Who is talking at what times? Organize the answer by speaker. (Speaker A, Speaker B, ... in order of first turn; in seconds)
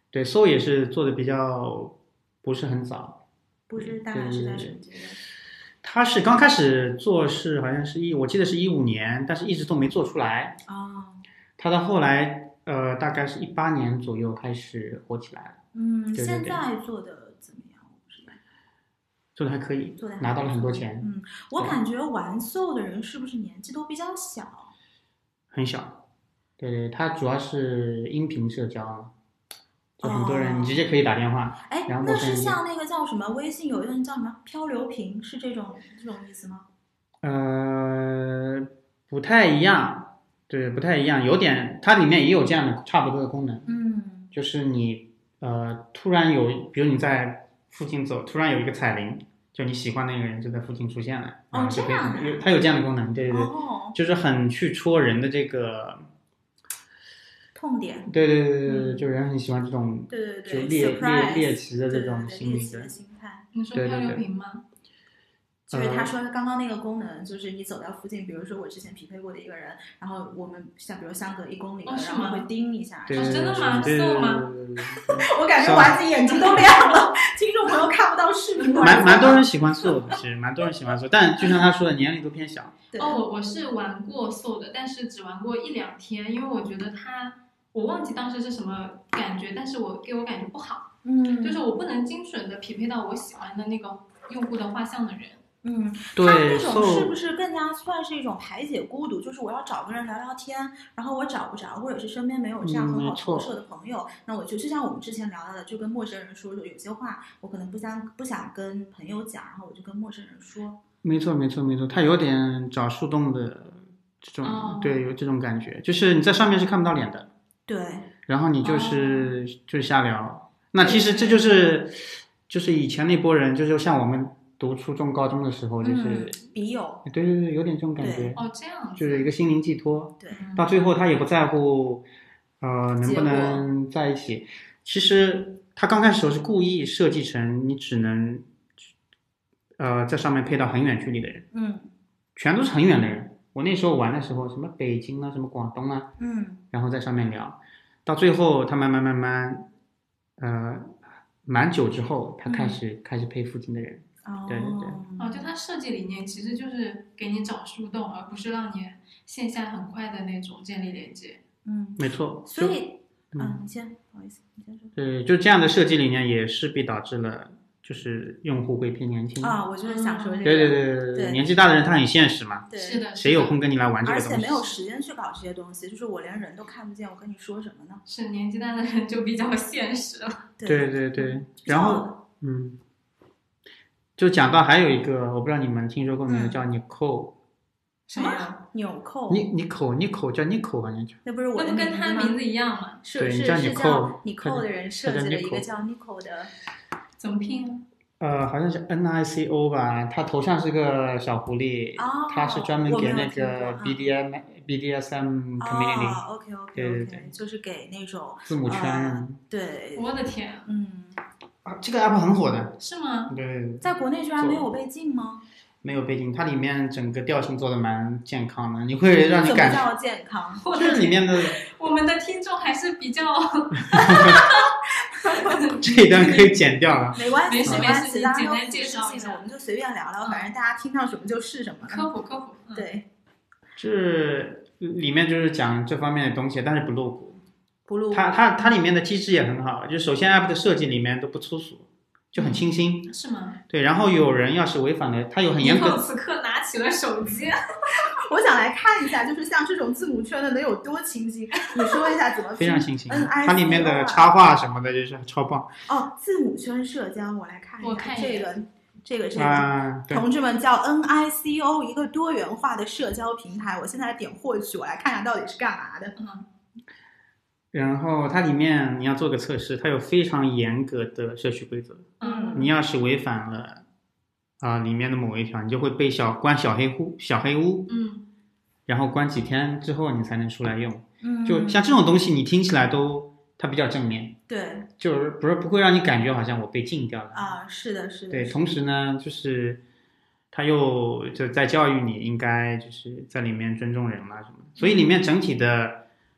Speaker A: 0.1-3.2, 3.8-4.8, 5.8-10.6, 11.6-15.6, 16.1-16.6, 19.4-21.8, 25.5-26.0, 26.6-29.1, 30.0-32.6, 37.2-43.6, 44.3-56.0, 58.1-62.9, 63.7-64.2, 65.7-66.1, 73.1-76.0, 78.8-82.8, 96.2-97.2, 102.6-103.5, 111.0-117.3, 118.3-126.4, 127.0-128.4, 129.0-132.0, 132.6-138.4, 139.8-141.4, 142.3-146.1, 146.7-149.7, 150.4-155.0, 162.0-162.8, 164.9-169.6, 170.4-174.8, 180.7-182.8, 184.2-187.3, 189.3-191.2, 193.2-195.7, 198.2-206.2, 206.7-207.3, 208.5-209.4, 211.6-212.8, 213.3-214.7, 215.8-219.9, 220.7-221.6, 223.9-224.4, 225.8-227.9, 233.8-237.4, 238.1-243.1, 243.7-246.0, 252.6-255.7, 259.3-260.2, 267.7-273.8, 274.6-277.9, 278.9-284.4, 285.0-287.6, 288.3-289.8, 290.5-296.0
Speaker B: 3.7-5.2, 10.7-11.2, 15.7-18.4, 20.0-24.7, 30.0-30.8, 31.7-36.6, 43.6-44.3, 51.5-52.5, 53.3-54.0, 57.5-58.1, 60.1-63.5, 65.7-73.9, 75.2-79.5, 82.9-83.2, 91.0-91.6, 95.6-110.8, 117.7-118.1, 120.8-121.4, 125.8-127.0, 128.0-128.3, 130.2-130.5, 133.0-133.6, 141.5-141.9, 146.2-146.6, 154.2-155.5, 161.6-164.9, 169.4-171.4, 172.7-173.0, 174.0-178.0, 180.6-182.2, 186.3-186.6, 188.1-189.5, 191.2-192.4, 193.0-196.5, 202.0-204.0, 205.6-210.1, 210.7-211.2, 213.8-215.4, 219.3-220.7, 225.2-225.6, 227.2-232.1, 232.7-233.1, 237.9-238.3, 248.2-254.3, 255.8-266.1, 272.2-272.6, 281.2-281.9, 284.5-284.9, 287.3-288.6, 294.8-295.0
Speaker C: 63.5-64.6, 71.8-72.5, 73.1-74.5, 76.4-76.7, 83.0-95.4, 114.4-115.0, 118.6-119.3, 128.3-129.3, 130.3-130.6, 155.2-161.4, 169.8-170.5, 172.8-173.5, 178.1-180.5, 188.1-188.5, 191.5-193.0, 197.2-197.8, 209.9-210.7, 212.8-213.3, 220.6-224.7, 225.3-226.6, 227.5-229.4, 230.2-230.5, 231.8-232.8, 242.4-243.6, 245.6-247.6, 251.8-252.1, 257.8-258.5, 266.2-266.4, 272.2-272.7, 277.9-278.2